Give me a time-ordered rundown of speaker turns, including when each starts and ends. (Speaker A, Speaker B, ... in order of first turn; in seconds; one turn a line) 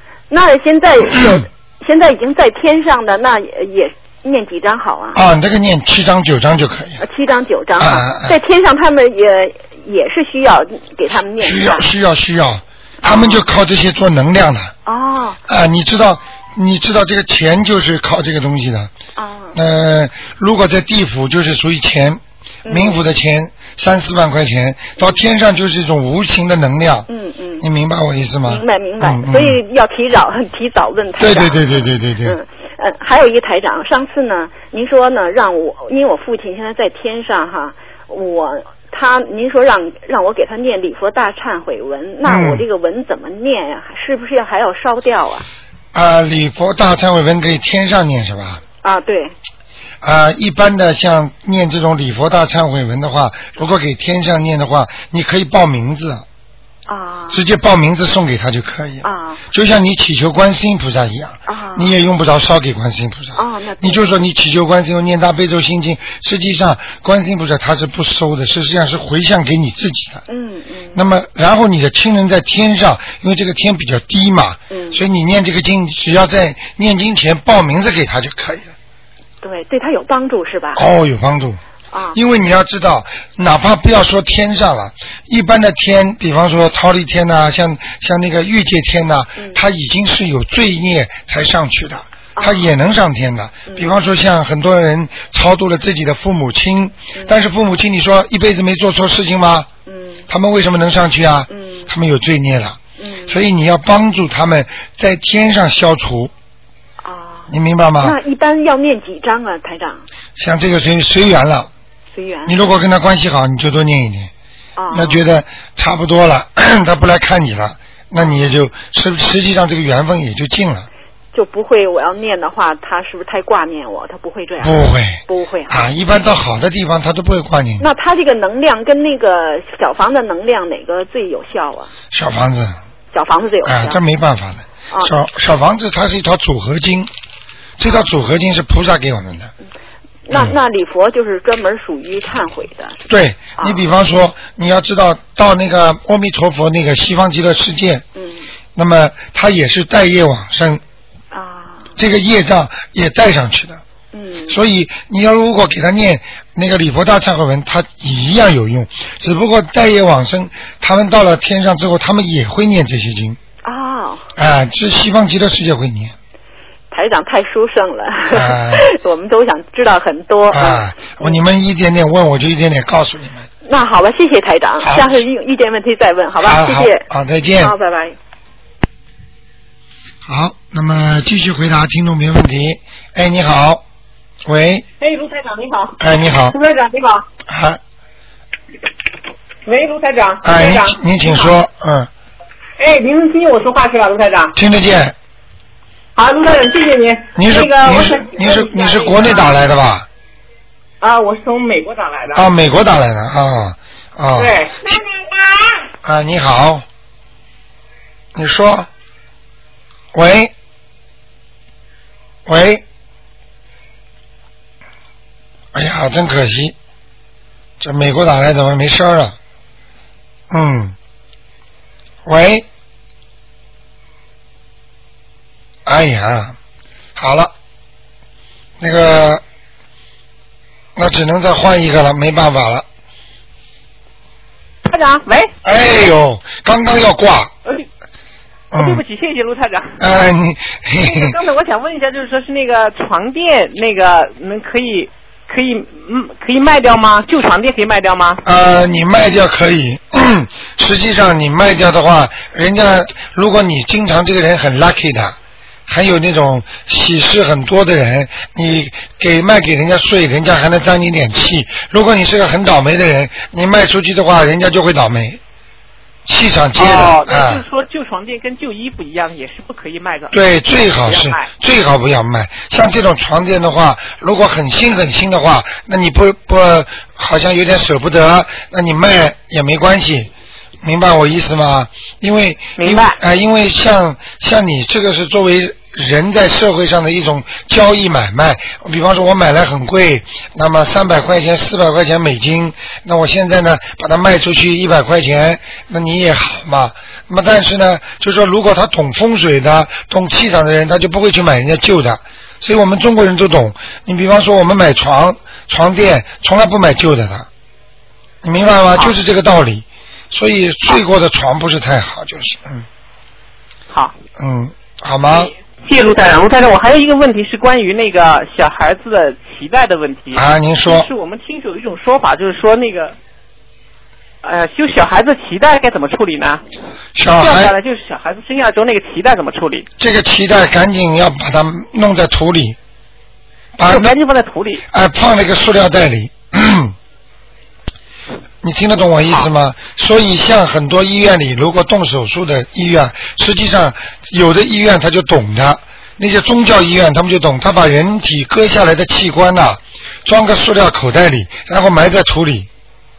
Speaker A: 0.3-5.2
Speaker B: 1.1-1.4
Speaker B: 5.1-7.0
Speaker A: 7.0-11.8
Speaker B: 7.8-8.4
Speaker B: 11.4-14.7
Speaker A: 13.0-13.5
Speaker A: 14.9-15.4
Speaker B: 15.5-18.9
Speaker A: 19.2-19.6
Speaker B: 19.5-27.1
Speaker A: 22.7-23.0
Speaker A: 27.1-27.6
Speaker B: 27.6-29.6
Speaker A: 28.5-45.5
Speaker B: 31.2-32.4
Speaker B: 42.2-42.6
Speaker B: 45.9-48.6
Speaker A: 48.8-49.3
Speaker B: 50.0-56.2
Speaker A: 56.9-57.4
Speaker B: 57.3-70.2
Speaker A: 59.0-59.4
Speaker A: 61.5-61.9
Speaker A: 63.4-64.1
Speaker A: 70.3-71.0
Speaker B: 70.9-78.7
Speaker A: 74.7-75.0
Speaker A: 79.4-80.8
Speaker B: 80.8-81.6
Speaker A: 81.9-82.2
Speaker B: 82.1-99.7
Speaker A: 92.4-92.7
Speaker A: 99.9-100.3
Speaker B: 100.3-106.3
Speaker A: 101.5-101.9
Speaker A: 103.0-103.4
Speaker A: 107.0-110.1
Speaker B: 107.5-108.2
Speaker B: 110.4-111.7
Speaker A: 112.1-112.6
Speaker B: 112.5-114.3
Speaker A: 114.8-115.2
Speaker B: 114.9-120.9
Speaker A: 118.2-118.6
Speaker A: 121.3-125.9
Speaker B: 124.6-127.9
Speaker A: 127.8-131.9
Speaker B: 132.1-132.8
Speaker A: 133.1-134.0
Speaker B: 133.6-137.1
Speaker B: 137.8-139.5
Speaker A: 140.3-143.0
Speaker B: 143.1-148.1
Speaker A: 148.2-148.5
Speaker B: 148.8-150.8
Speaker A: 151.3-151.9
Speaker B: 152.0-153.8
Speaker A: 154.1-154.6
Speaker B: 154.5-163.4
Speaker A: 163.6-164.3
Speaker B: 164.4-166.1
Speaker A: 166.9-171.4
Speaker B: 168.3-168.9
Speaker B: 170.5-173.5
Speaker A: 173.6-177.0
Speaker B: 174.8-175.2
Speaker B: 176.4-177.8
Speaker A: 177.6-178.2
Speaker B: 180.2-183.8
Speaker B: 184.4-184.8
Speaker C: 185.0-187.3
Speaker B: 186.0-186.6
Speaker B: 187.5-187.8
Speaker C: 189.7-191.5
Speaker B: 190.4-192.1
Speaker C: 192.8-194.6
Speaker B: 194.6-195.2
Speaker C: 196.2-199.7
Speaker B: 197.3-200.1
Speaker C: 201.0-202.5
Speaker B: 202.3-204.6
Speaker C: 204.3-205.8
Speaker B: 206.0-206.8
Speaker B: 208.3-208.9
Speaker B: 210.1-210.5
Speaker B: 212.5-212.8
Speaker B: 215.7-216.8
Speaker B: 217.8-219.4
Speaker B: 220.5-220.9
Speaker B: 222.2-222.7
Speaker B: 225.9-226.6
Speaker B: 227.2-227.5
Speaker B: 228.8-229.4
Speaker B: 231.0-232.8
Speaker C: 234.8-235.5
Speaker B: 235.6-237.5
Speaker B: 238.7-239.0
Speaker C: 238.8-240.0
Speaker B: 240.0-241.3
Speaker C: 241.0-248.4
Speaker B: 248.4-255.4
Speaker B: 255.9-265.4
Speaker B: 266.2-267.6
Speaker C: 266.8-271.5
Speaker B: 270.3-280.3
Speaker B: 280.8-307.5
Speaker C: 282.8-283.2
Speaker B: 308.4-312.9
Speaker B: 314.4-315.5
Speaker C: 315.3-323.2
Speaker B: 320.4-321.1
Speaker C: 324.4-326.6
Speaker B: 327.2-327.8
Speaker C: 327.4-329.9
Speaker B: 330.0-332.8
Speaker B: 333.8-334.1
Speaker C: 333.8-334.9
Speaker B: 334.9-336.9
Speaker B: 338.6-352.7